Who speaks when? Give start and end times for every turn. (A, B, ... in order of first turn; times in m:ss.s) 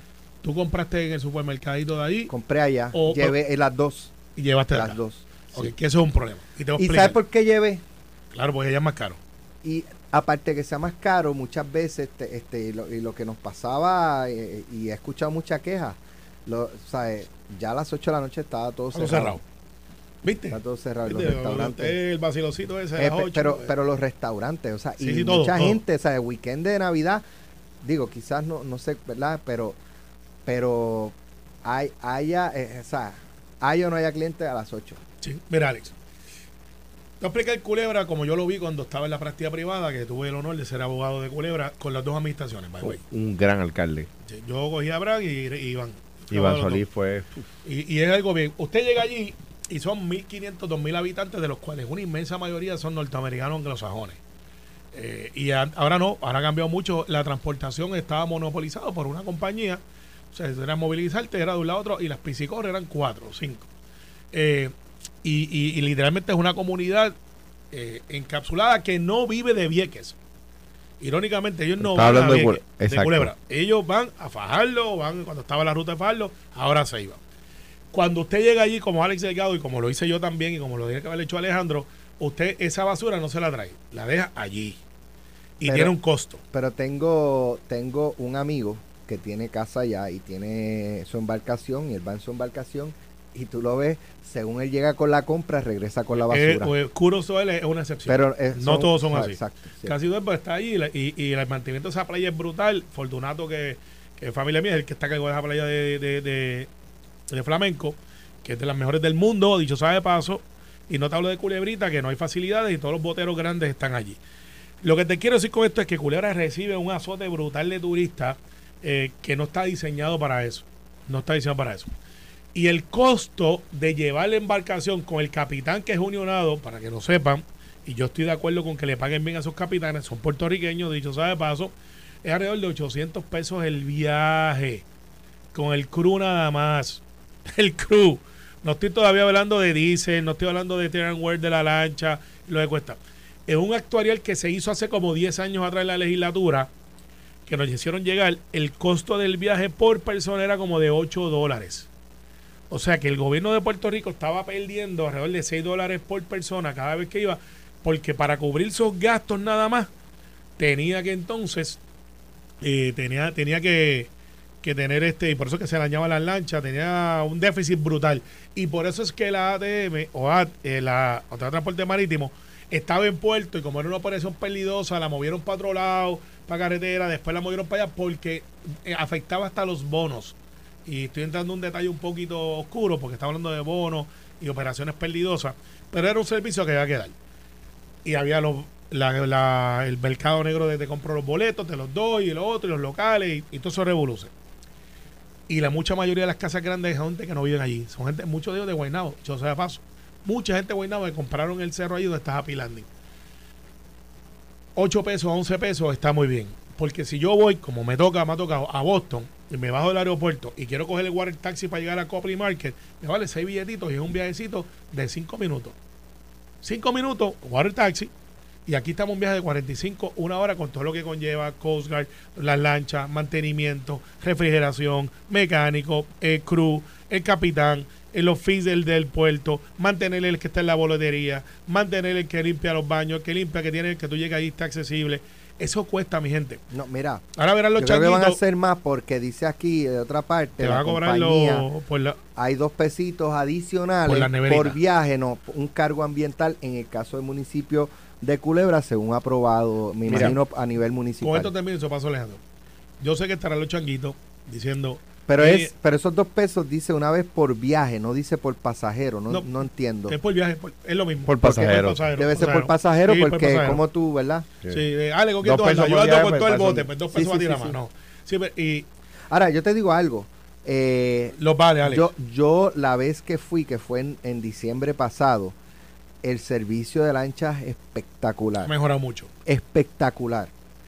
0:00.4-0:02.3 A
0:02.3-0:04.1 B
0:02.9-0:03.4 A
0:04.4-0:05.0 A
0:04.7-0:05.7 B
0:05.5-0:07.2 A
0:06.8-0:07.8 B
0:08.3-0:09.2 A
0:09.6-0:19.4 B
0:18.9-0:19.4 A
0:20.2-0:23.7 A
0:20.5-0:22.0 B
0:23.0-0:27.2 B
0:25.0-0:25.8 A
0:27.8-0:29.8 B
0:30.4-0:35.0 B
0:35.2-0:35.9 A
0:37.2-0:43.0 A
0:42.8-0:44.1 C
0:44.3-0:46.8 A
0:46.3-0:47.3 C
0:47.6-0:54.2 A
0:54.9-0:59.8 A
1:00.3-1:03.7 A
1:04.3-1:04.7 A
1:05.2-1:07.1 A
1:07.7-1:10.2 A
1:11.0-1:17.2 A
1:11.8-1:13.3 C
1:17.9-1:24.8 A
1:25.6-1:26.4 A
1:25.6-1:25.9 B
1:26.5-1:36.7 B
1:36.1-1:46.7 A
1:38.1-1:39.9 B
1:47.3-1:54.2 A
1:54.8-2:01.9 A
2:02.5-2:11.7 A
2:12.2-2:14.8 A
2:15.5-2:26.7 A
2:27.4-2:31.9 A
2:32.7-2:39.9 A
2:40.6-2:41.8 A
2:42.6-2:44.1 A
2:44.6-3:00.3 A
3:00.8-3:07.1 A
3:08.0-3:14.3 A
3:15.5-3:22.9 A
3:24.8-3:35.8 A
3:36.6-3:38.1 A
3:38.6-3:56.6 A
3:56.7-3:57.2 B
3:57.4-3:58.4 A
3:57.8-4:01.6 B
4:00.6-4:02.2 A
4:02.4-4:11.5 B
4:04.0-4:04.8 A
4:10.1-4:10.4 C
4:11.2-4:12.4 A
4:13.0-4:15.7 A
4:15.3-4:20.2 B
4:20.1-4:23.8 A
4:21.3-4:22.0 C
4:21.4-4:24.5 B
4:24.7-4:28.9 A
4:25.4-4:26.9 C
4:27.1-4:27.8 B
4:29.3-4:35.5 B
4:31.4-4:32.1 A
4:36.2-4:38.7 B
4:38.6-4:39.3 A
4:39.4-4:40.5 B